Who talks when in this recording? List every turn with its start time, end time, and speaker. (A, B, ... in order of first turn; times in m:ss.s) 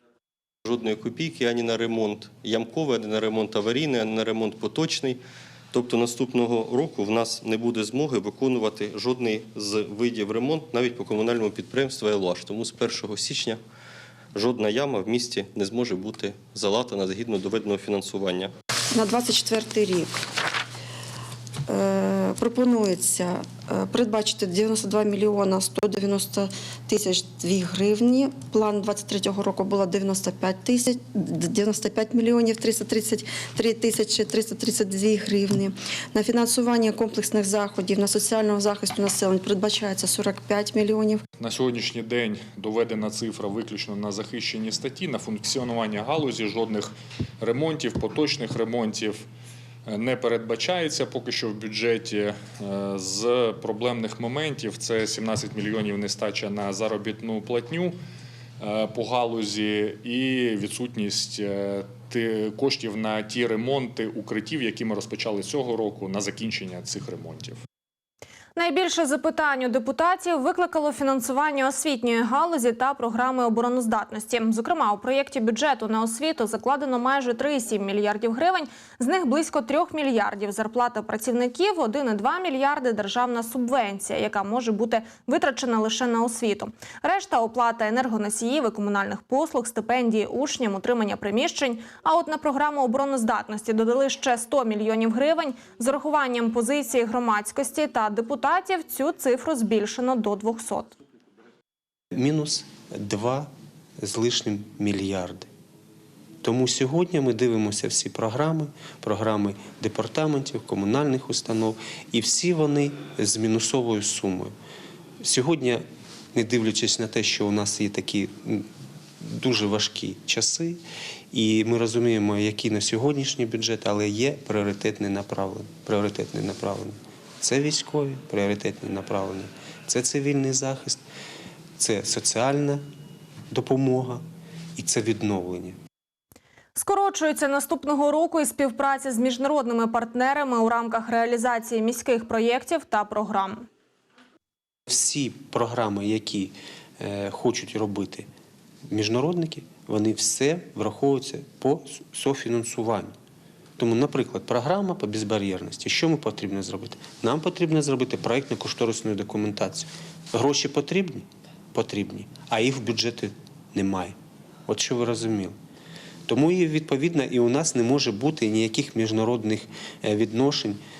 0:00.7-0:05.2 A
0:05.7-0:13.6 A
0:14.4-0:18.5 A
0:18.9-0:20.2 B
0:21.7-0:41.2 B
0:41.4-0:46.9 C
0:47.4-0:49.2 C
0:49.9-0:58.0 C
0:58.6-1:07.6 C
1:08.6-1:41.0 D
1:42.1-1:43.5 E
1:44.0-1:45.5 E
1:46.4-1:54.5 E
1:55.2-1:55.8 E
1:56.3-1:58.7 E
1:59.2-2:00.8 E
2:01.3-2:11.0 E
2:11.8-2:12.8 E
2:13.5-2:14.2 E
2:14.8-2:15.8 E
2:16.8-2:23.6 D
2:24.9-2:28.3 E
2:28.9-2:33.1 E
2:33.8-2:44.2 E
2:44.7-2:45.6 E
2:46.3-2:50.8 E